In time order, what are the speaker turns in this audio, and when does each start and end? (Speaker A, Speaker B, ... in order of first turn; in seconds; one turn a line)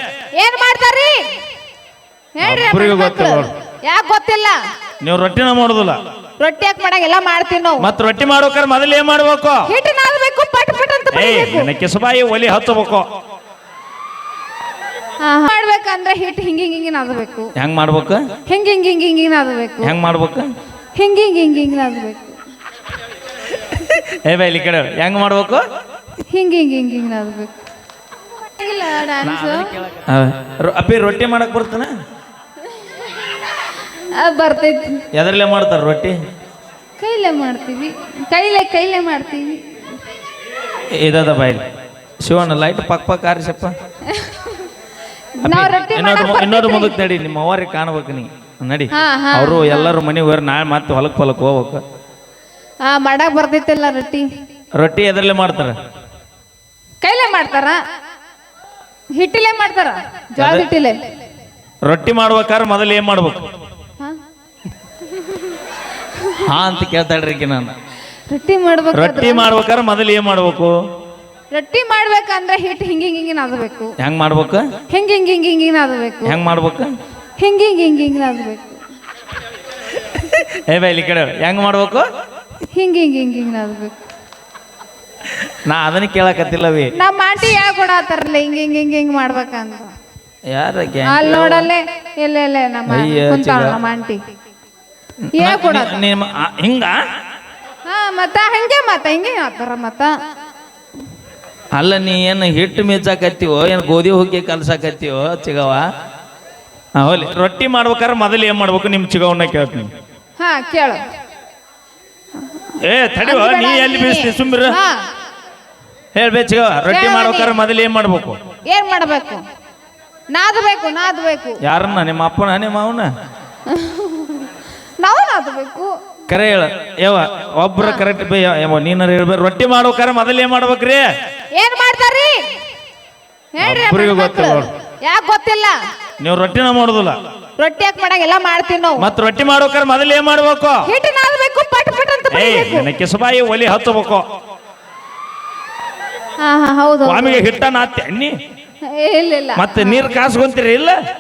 Speaker A: 0.4-1.2
Speaker A: 2.4-4.5
Speaker B: 2.4-3.5
Speaker B: 5.0-6.0
Speaker A: 6.4-7.9
Speaker B: 7.8-9.7
Speaker A: 9.7-11.7
Speaker B: 11.1-13.1
Speaker A: 15.2-17.5
Speaker B: 17.6-18.2
Speaker A: 18.5-19.9
Speaker B: 19.8-20.5
Speaker A: 20.9-22.4
Speaker B: 23.7-25.6
Speaker A: 26.3-27.5
Speaker A: 28.4-29.8
Speaker B: 29.2-31.9
Speaker A: 34.1-35.0
Speaker B: 35.1-36.2
Speaker A: 37.0-39.6
Speaker B: 40.9-41.6
Speaker B: 42.2-43.7
Speaker A: 44.1-44.7
Speaker A: 45.4-46.9
Speaker B: 45.4-51.8
Speaker A: 48.9-49.9
Speaker A: 52.8-54.2
Speaker B: 54.8-55.8
Speaker A: 57.0-57.8
Speaker A: 59.2-61.0
Speaker B: 60.4-60.6
Speaker B: 61.8-63.5
Speaker A: 65.1-65.5
Speaker B: 66.4-67.7
Speaker A: 68.3-69.5
Speaker B: 68.9-70.7
Speaker A: 71.5-73.9
Speaker B: 74.0-74.7
Speaker A: 74.9-76.4
Speaker B: 76.2-76.9
Speaker A: 77.4-78.8
Speaker B: 80.1-82.1
Speaker A: 82.7-83.9
Speaker B: 85.6-86.9
Speaker A: 87.0-89.9
Speaker B: 90.5-91.7
Speaker A: 91.0-94.2
Speaker B: 92.9-93.8
Speaker B: 95.2-97.0
Speaker A: 95.4-96.0
Speaker A: 97.9-100.1
Speaker B: 101.7-105.8
Speaker B: 107.0-109.9
Speaker A: 110.4-111.0
Speaker B: 112.8-114.8
Speaker A: 113.2-115.0
Speaker B: 116.1-118.4
Speaker A: 116.9-117.5
Speaker A: 118.7-119.4
Speaker A: 120.3-121.6
Speaker B: 121.6-123.1
Speaker A: 123.7-124.5
Speaker A: 125.0-125.9
Speaker B: 126.3-131.1
Speaker A: 131.6-132.4
Speaker A: 133.6-135.8
Speaker B: 133.6-134.7
Speaker B: 136.2-137.2
Speaker A: 137.6-139.0
Speaker B: 139.0-140.9
Speaker A: 140.9-142.9
Speaker B: 142.3-144.2
Speaker A: 146.4-147.4
Speaker B: 147.0-148.3
Speaker A: 148.8-150.1
Speaker B: 149.6-151.0